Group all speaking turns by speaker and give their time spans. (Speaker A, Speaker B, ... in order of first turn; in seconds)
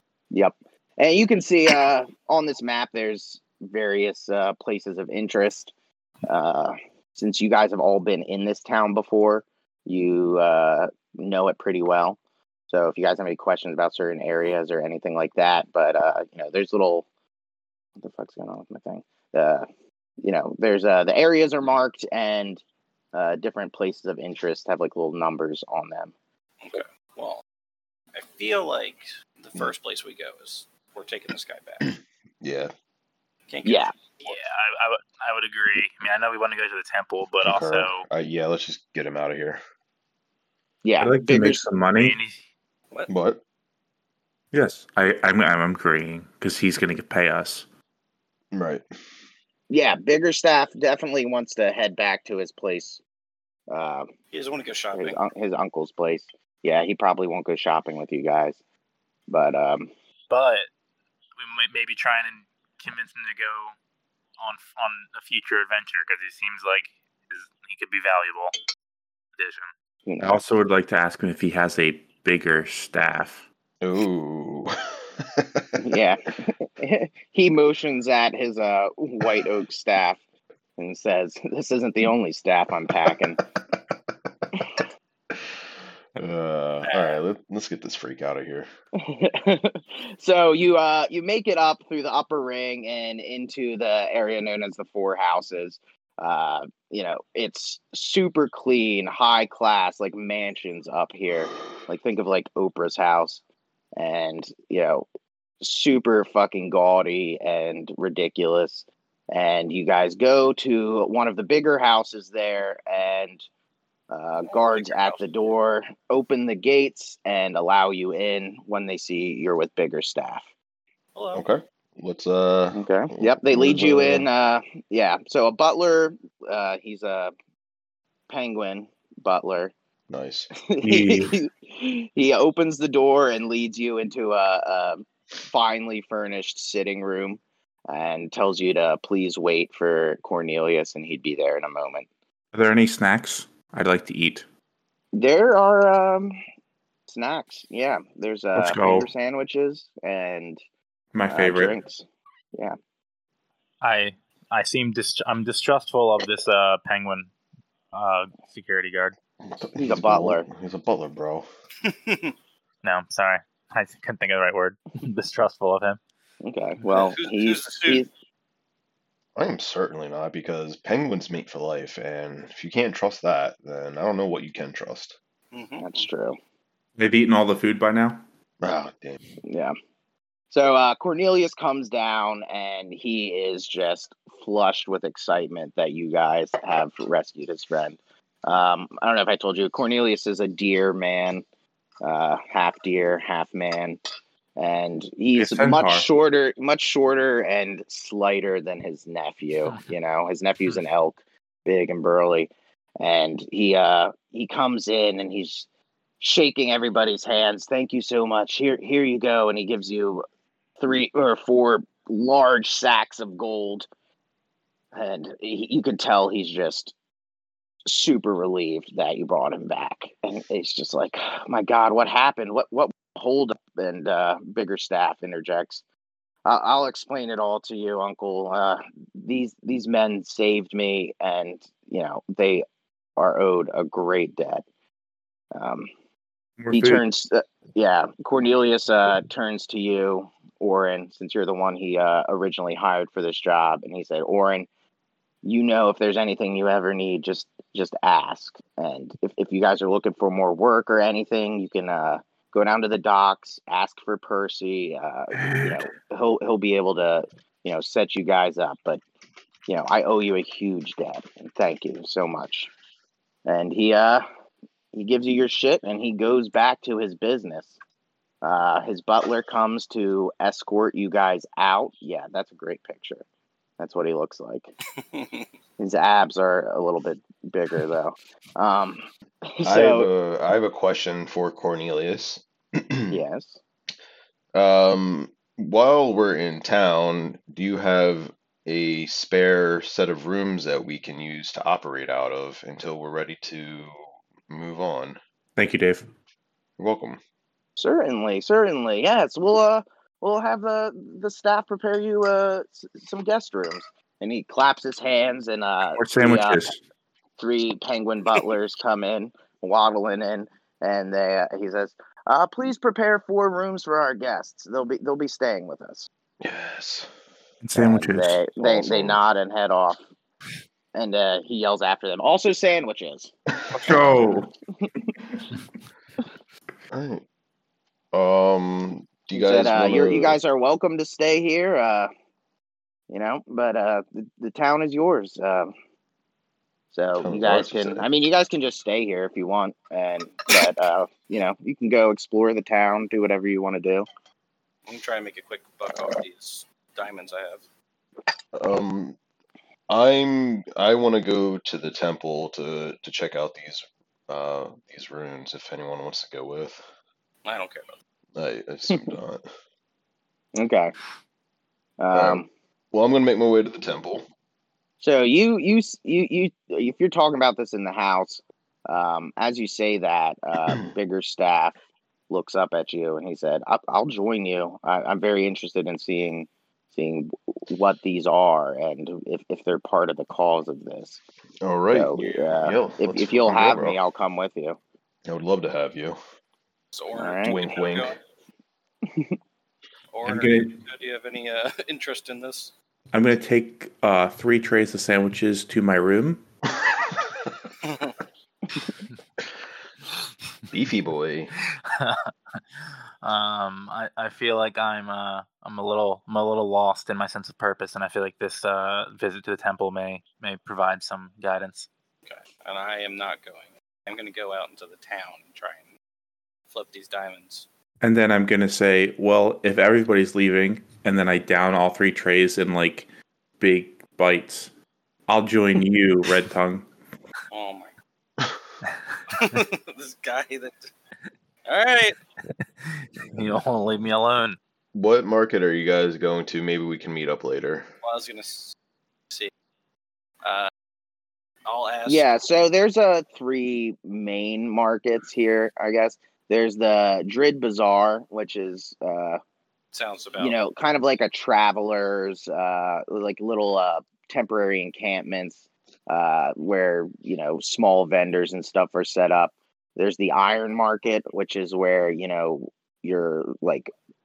Speaker A: 0.3-5.7, 6.3-12.2, 12.7-17.1, 18.0-19.7, 20.2-22.6, 23.1-26.1, 33.6-33.9, 40.8-41.6, 49.7-53.0, 53.7-54.1, 55.0-58.6, 59.3-59.9, 70.1-70.4, 75.8-80.2, 80.8-83.4, 84.5-84.8, 89.0-103.4, 104.0-105.1, 105.6-113.5, 114.1-120.5, 122.7-127.3, 128.3-129.7, 130.7-142.1, 145.1-146.4, 147.1-150.6, 151.3-152.8, 159.8-160.5, 166.4-168.1, 175.8-176.4, 179.4-179.7, 180.5-191.4, 192.0-194.0, 194.6-205.7, 206.2-210.2, 210.8-213.9, 214.9-216.9, 217.9-225.8, 226.4-232.7, 233.2-234.6, 235.5-235.9, 236.7-244.7, 245.4-259.0, 259.7-262.7, 263.4-264.2, 264.9-267.8, 268.4-273.2, 273.8-274.7, 275.8-280.1, 283.1-283.6, 297.8-306.6, 307.4-316.1, 317.8-320.0, 320.9-323.3, 323.9-325.1, 329.3-332.1, 333.1-335.7, 336.9-344.1, 360.6-360.9, 362.0-362.5, 365.0-371.8, 372.3-381.2, 381.9-384.8, 387.2-387.6, 389.1-389.4, 442.1-449.4, 450.4-463.9
Speaker B: 26.6-27.4, 28.1-31.9, 33.5-34.4, 54.3-55.2, 86.8-87.2, 114.5-115.2, 121.2-121.5, 161.8-162.3, 166.9-168.0, 175.5-176.1, 275.0-275.5, 344.9-347.6, 357.4-357.9, 386.9-388.2, 390.1-392.7, 397.8-398.1, 412.3-415.9, 416.7-417.7, 427.5-427.9, 429.3-430.8, 431.7-432.2, 438.0-438.8, 440.4-440.7, 441.7-442.3, 449.9-450.6
Speaker C: 31.9-32.7, 37.4-39.6, 43.1-43.4, 48.5-48.8, 73.8-75.7, 86.2-88.7, 121.3-124.3, 130.1-130.5, 159.4-161.5, 169.4-175.2, 178.6-179.2, 279.6-283.2, 284.5-295.2, 296.8-297.2, 316.4-317.1, 318.6-319.2, 326.9-327.2, 328.1-330.4, 337.2-338.1, 348.5-349.2, 349.9-356.9, 358.4-359.5, 362.1-364.2, 381.6-384.0, 385.3-386.2, 387.4-388.2, 400.7-401.5, 434.9-437.9
Speaker D: 34.2-38.1, 41.9-42.4, 60.3-60.7, 61.4-63.8, 64.4-68.5, 69.4-69.7, 153.8-157.3, 157.9-159.2, 162.8-166.0, 401.9-411.9, 432.9-434.6
Speaker E: 41.0-42.2, 44.5-47.6, 70.2-73.5, 130.8-131.4, 142.5-144.5, 148.6-149.1, 151.1-151.8, 177.0-178.2, 195.4-196.1, 236.6-237.0, 255.3-255.8, 295.6-296.1, 306.0-306.8, 317.6-318.4, 323.7-324.5, 390.2-390.8, 393.1-396.4, 418.0-423.1, 423.6-424.7, 425.3-426.9